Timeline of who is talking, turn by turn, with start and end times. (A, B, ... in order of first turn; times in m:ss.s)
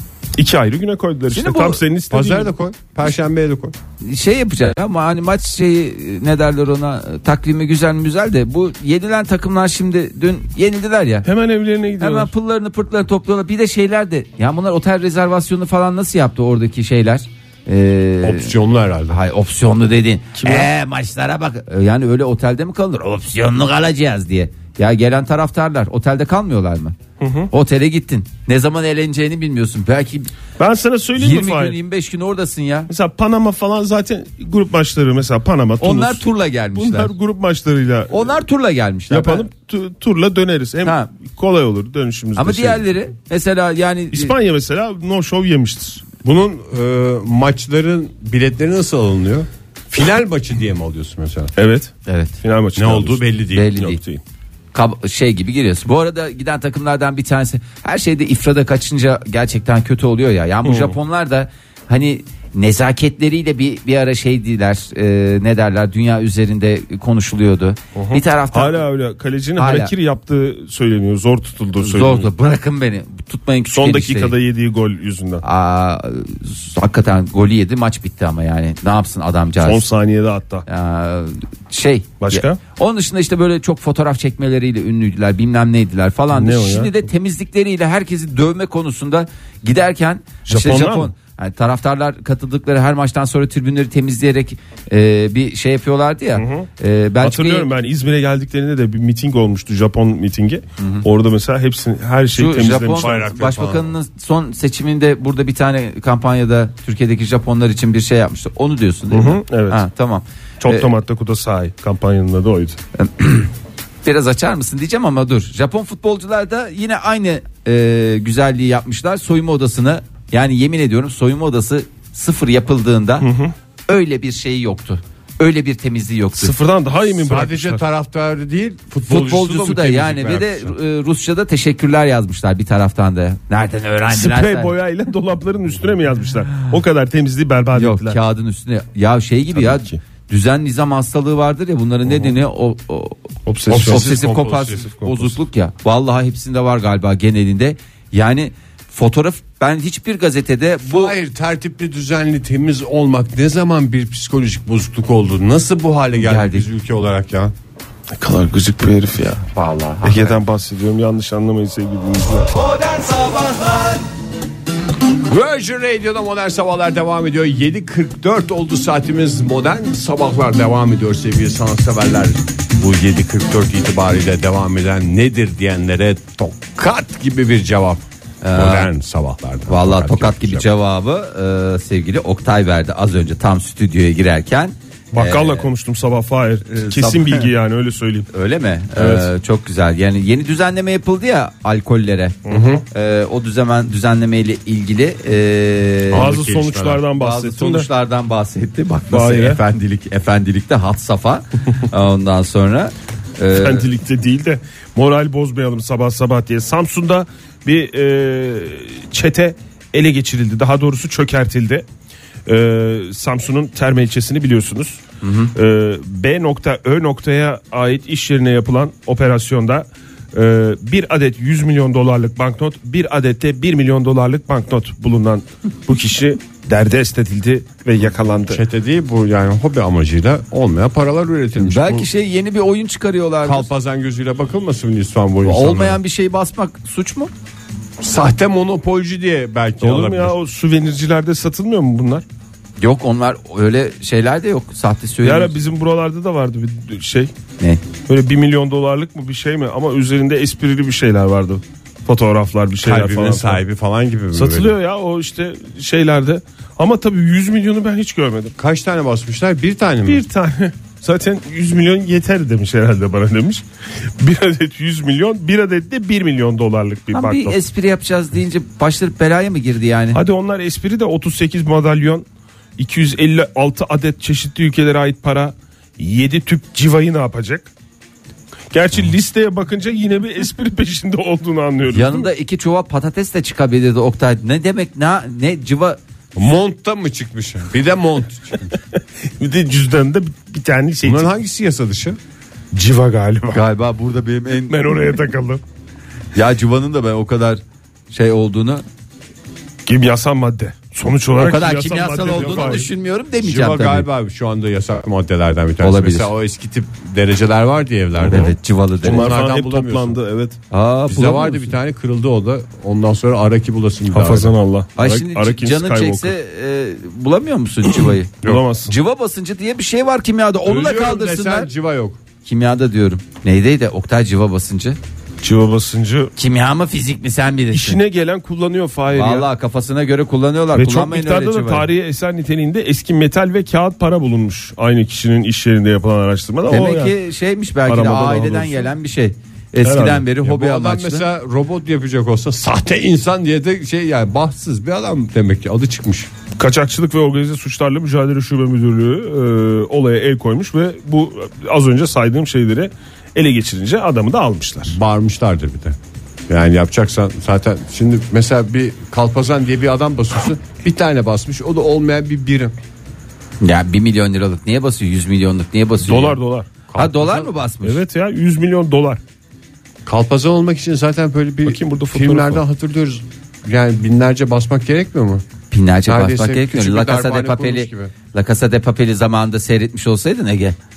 0:00.4-0:02.5 A
0:01.3-0:01.8 B
0:02.1-0:03.8 C
0:04.0-0:11.3 B
0:11.2-0:12.3 A
0:12.0-0:18.5 B
0:18.2-0:19.2 C
0:19.1-0:27.0 B
0:20.4-0:20.7 A
0:27.2-0:27.5 A
0:27.5-0:30.3 B
0:30.6-0:31.8 A
0:31.2-0:32.9 B
0:32.9-0:38.3 A
0:35.8-0:37.1 B
0:38.1-0:39.5 B
0:39.1-0:42.8 A
0:40.8-0:41.1 B
0:42.4-0:44.3 B
0:44.1-0:46.0 A
0:46.2-0:51.5 C
0:51.6-0:53.2 A
0:52.1-0:52.3 B
0:52.8-0:53.7 C
0:53.5-0:54.0 B
0:53.8-0:54.2 A
0:54.7-1:08.8 B
1:00.6-1:01.0 A
1:08.0-1:12.3 A
1:09.6-1:09.9 B
1:11.8-1:14.4 B
1:13.7-1:15.4 A
1:15.4-1:19.8 B
1:19.6-1:20.7 A
1:20.7-1:37.7 B
1:22.2-1:22.6 A
1:26.3-1:27.0 A
1:30.5-1:31.1 A
1:36.4-1:36.7 A
1:37.2-1:43.3 A
1:40.8-1:41.0 B
1:42.4-1:50.9 B
1:42.9-1:43.9 C
1:49.1-1:49.8 A
1:50.6-1:52.8 A
1:53.0-1:53.5 B
1:54.0-2:03.3 B
2:03.2-2:03.5 A
2:03.9-2:06.5 B
2:06.4-2:07.8 A
2:07.2-2:10.7 C
2:09.1-2:14.7 B
2:14.1-2:18.2 A
2:17.8-2:31.2 B
2:19.6-2:20.0 A
2:22.1-2:22.3 A
2:23.5-2:24.2 A
2:23.7-2:25.3 C
2:30.8-2:37.5 C
2:36.2-2:36.7 B
2:38.2-2:39.5 A
2:39.6-2:40.3 C
2:40.0-2:42.5 A
2:42.8-2:44.0 C
2:45.3-3:00.7 C
2:58.4-2:58.9 B
2:59.7-3:05.7 B
3:05.1-3:08.3 A
3:06.7-3:07.5 B
3:08.3-3:12.4 B
3:09.0-3:09.3 A
3:12.5-3:12.8 A
3:12.5-3:12.8 C
3:12.9-3:16.3 B
3:16.1-3:17.0 C
3:16.1-3:17.9 A
3:17.2-3:23.9 B
3:19.1-3:19.6 A
3:23.5-3:31.9 A
3:32.5-3:35.0 A
3:35.2-3:35.5 B
3:35.6-3:48.6 A
3:48.5-3:52.1 C
3:51.6-3:53.7 B
3:53.4-3:56.0 C
3:55.4-3:57.3 B
3:58.0-4:00.3 C
3:59.8-4:02.2 A
4:02.8-4:05.5 B
4:05.2-4:07.3 A
4:08.1-4:13.6 A
4:12.8-4:14.7 C
4:14.3-4:18.5 A
4:18.6-4:20.2 C
4:20.1-4:23.6 A
4:24.2-4:27.6 A
4:27.1-4:30.2 B
4:30.1-4:32.2 A
4:32.8-4:37.7 A
4:38.7-4:42.3 A
4:41.9-4:46.0 B
4:46.4-4:48.8 C
4:49.4-4:51.3 A
4:51.0-4:52.2 C
4:52.7-4:53.6 A
4:53.5-4:54.8 B
4:54.7-4:55.6 A
4:56.4-4:58.8 B
4:59.9-5:02.9 A
5:01.4-5:04.1 B
5:02.4-5:10.2 C
5:05.8-5:06.3 B
5:08.2-5:10.6 A
5:08.3-5:09.4 B
5:10.7-5:11.8 B
5:11.1-5:14.5 C
5:14.1-5:16.4 A
5:15.0-5:21.7 B
5:18.4-5:19.0 A
5:20.6-5:22.2 C
5:22.4-5:25.0 B
5:25.4-5:26.3 A
5:26.4-5:28.0 B
5:27.7-5:29.5 A
5:29.1-5:31.9 B
5:30.8-5:37.2 A
5:36.7-5:41.3 B
5:37.9-5:38.9 A
5:39.8-5:40.3 A
5:40.4-5:46.3 C
5:46.6-5:55.0 A
5:54.9-5:56.0 C
5:56.5-6:02.7 C
6:03.6-6:06.4 B
6:06.0-6:06.7 A
6:06.9-6:07.5 C
6:07.0-6:08.0 B
6:07.8-6:09.2 A
6:10.0-6:15.4 C
6:11.6-6:12.6 A
6:15.7-6:20.8 B
6:16.1-6:18.1 C